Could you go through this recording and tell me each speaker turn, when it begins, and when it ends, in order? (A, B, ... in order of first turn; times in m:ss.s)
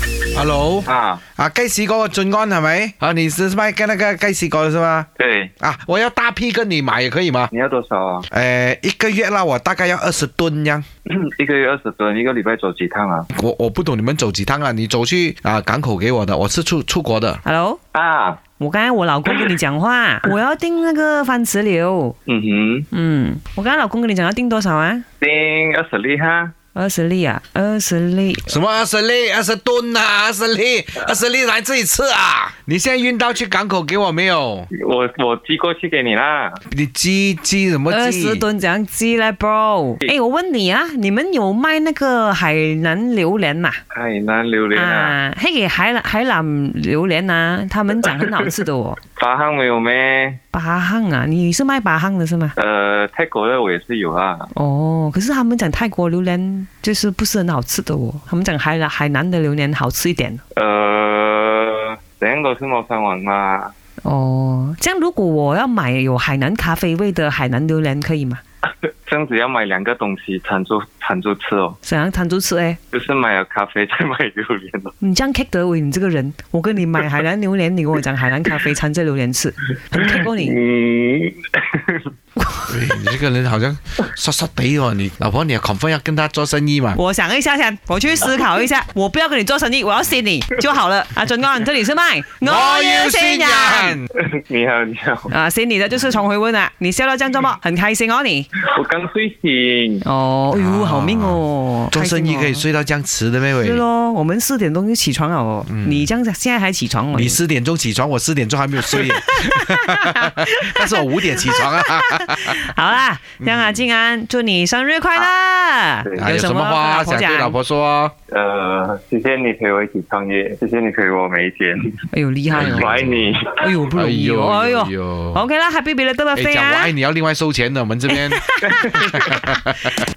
0:00.3-0:05.1 A
0:00.8-0:01.2 B
0:05.2-0:05.5 B
0:05.6-0:07.5 A
0:07.5-0:08.2 B
0:08.3-0:10.8 A
0:11.1-0:13.3 B
0:13.3-0:17.4 A
0:17.4-0:17.8 C
0:17.9-0:18.4 B
0:18.6-0:22.2 C
0:22.2-0:22.9 B
0:22.9-0:25.0 C
0:25.2-0:26.5 B
0:26.8-0:28.5 C
0:28.5-0:34.7 A
0:34.7-0:36.6 B
0:36.7-0:38.4 A
0:37.9-0:43.8 C
0:43.9-0:45.2 B
0:44.7-0:49.0 C
0:49.1-0:50.4 B
0:50.5-0:52.6 C
0:52.6-0:54.5 B
0:54.5-1:00.4 C
1:00.6-1:03.7 B
1:04.0-1:08.4 C
1:08.9-1:11.8 B
1:11.8-1:12.8 C
1:12.9-1:14.9 B
1:15.0-1:20.6 C
1:19.9-1:22.1 B
1:22.7-1:27.0 A
1:27.0-1:34.0 C
1:32.4-1:34.1 A
1:34.2-1:35.3 B
1:35.3-1:38.5 C
1:38.6-1:40.0 B
1:40.0-1:42.6 C
1:40.5-1:43.8 A
1:43.6-1:47.4 C
1:45.7-1:46.1 A
1:47.1-1:52.6 A
1:48.9-1:57.6 C
1:53.4-1:53.8 A
1:56.2-1:58.1 A
1:58.3-2:03.8 B
2:02.1-2:03.0 C
2:02.5-2:03.3 A
2:03.6-2:06.9 C
2:03.9-2:05.4 A
2:06.4-2:10.0 A
2:08.1-2:09.6 C